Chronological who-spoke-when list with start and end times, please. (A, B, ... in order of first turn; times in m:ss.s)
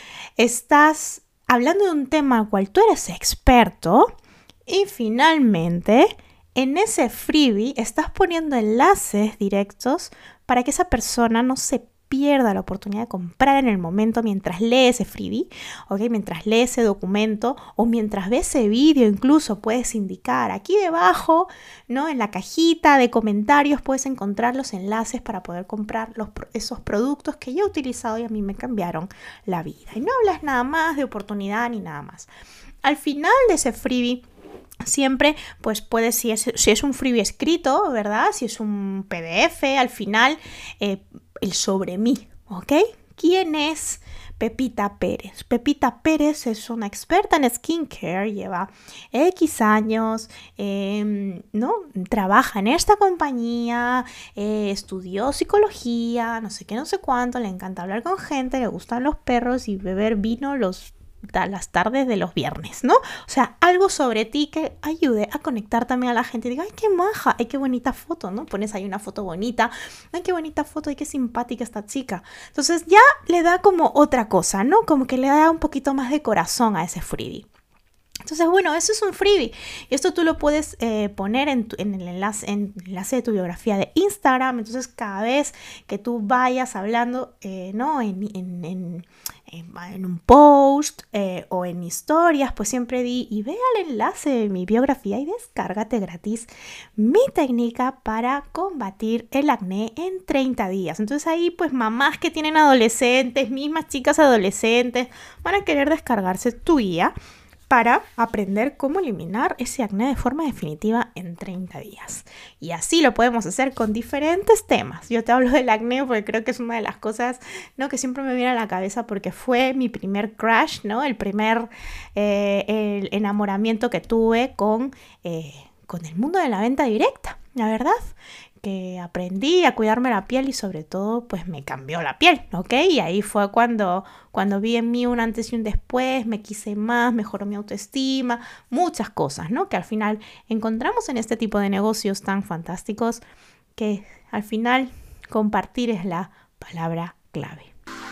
0:00.4-0:04.1 A
0:04.7-0:32.3 A
0:32.8-0:34.2 A
0:34.8-1:17.5 A
1:18.2-1:47.1 A
1:47.7-2:23.2 A
2:23.8-2:27.7 A